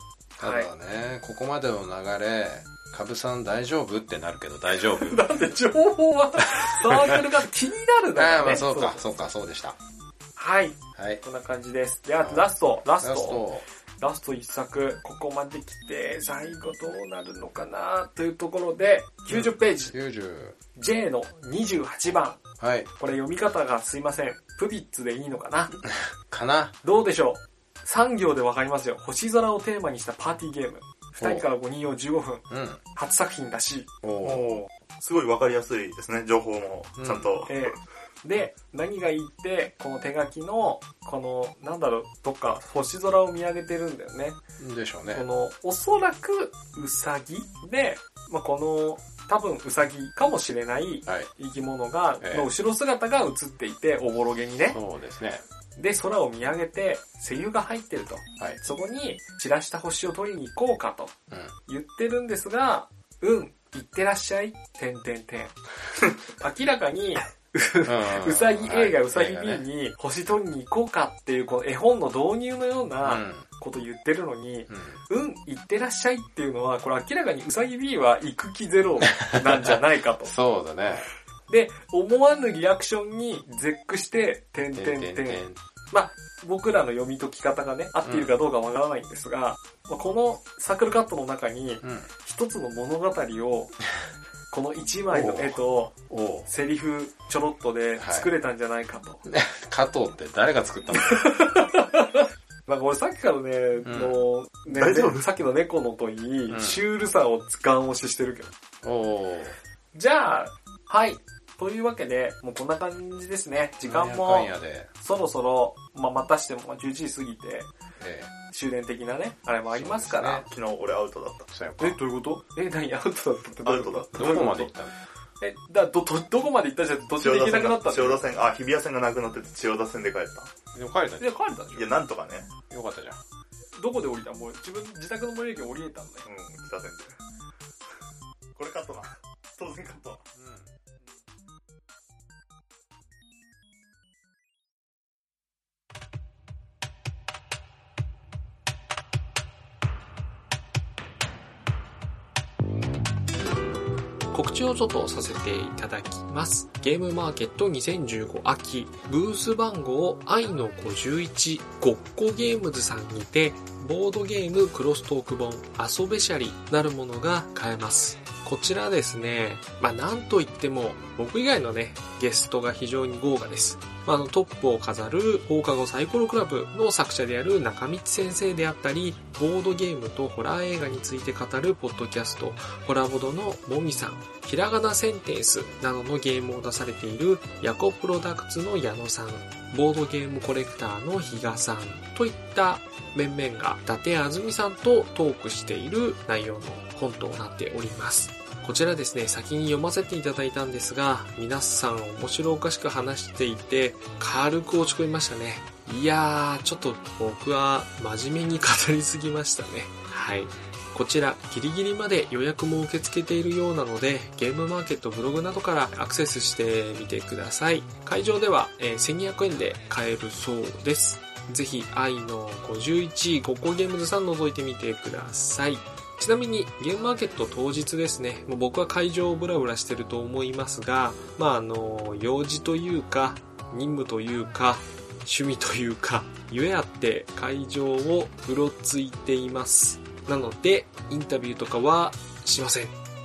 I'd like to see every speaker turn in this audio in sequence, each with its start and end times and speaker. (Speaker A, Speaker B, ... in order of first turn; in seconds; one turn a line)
Speaker A: 0.4-0.7
Speaker B: 0.4-5.3
Speaker A: 4.9-9.0
Speaker B: 6.7-7.2
Speaker B: 8.2-9.8
Speaker A: 10.4-13.4
Speaker B: 10.9-11.2
Speaker B: 12.2-13.6
Speaker A: 14.0-19.9
Speaker B: 19.3-20.6
Speaker A: 20.8-22.4
Speaker B: 22.6-22.9
Speaker A: 23.0-25.7
Speaker B: 26.3-26.7
Speaker A: 26.8-34.6
Speaker B: 31.2-31.4
Speaker B: 32.5-32.8
Speaker B: 34.0-34.6
Speaker C: 34.3-37.6
Speaker B: 37.0-37.3
Speaker A: 37.5-44.4
Speaker B: 44.6-45.2
Speaker A: 45.1-54.8
Speaker B: 52.2-52.5
Speaker B: 54.6-55.4
Speaker A: 55.8-61.1
Speaker A: 61.7-65.5
Speaker A: 66.3-80.3
Speaker B: 67.8-69.6
Speaker B: 73.0-73.5
Speaker B: 74.7-75.0
Speaker B: 79.3-81.1
Speaker A: 81.5-93.7
Speaker B: 84.7-85.6
Speaker B: 88.0-88.4
Speaker B: 91.8-92.1
Speaker A: 94.5-95.9
Speaker B: 95.1-96.5
Speaker A: 96.5-99.2
Speaker B: 98.0-98.3
Speaker B: 99.2-101.3
Speaker A: 100.9-108.5
Speaker B: 103.8-104.1
Speaker C: 104.7-105.3
Speaker B: 106.5-106.8
Speaker B: 108.8-109.5
Speaker A: 109.9-117.7
Speaker B: 113.8-114.9
Speaker B: 118.0-118.3
Speaker A: 118.5-120.5
Speaker B: 119.7-120.5
Speaker C: 120.5-121.5
Speaker B: 121.5-122.0
Speaker A: 121.8-124.7
Speaker C: 123.6-124.4
Speaker B: 124.1-124.9
Speaker A: 125.4-128.2
Speaker C: 127.2-130.5
Speaker B: 130.7-131.4
Speaker A: 131.2-132.0
Speaker C: 131.7-132.5
Speaker B: 132.7-133.2
Speaker A: 133.8-136.2
Speaker C: 136.2-137.1
Speaker C: 138.6-140.2
Speaker B: 140.3-140.7
Speaker A: 154.3-242.9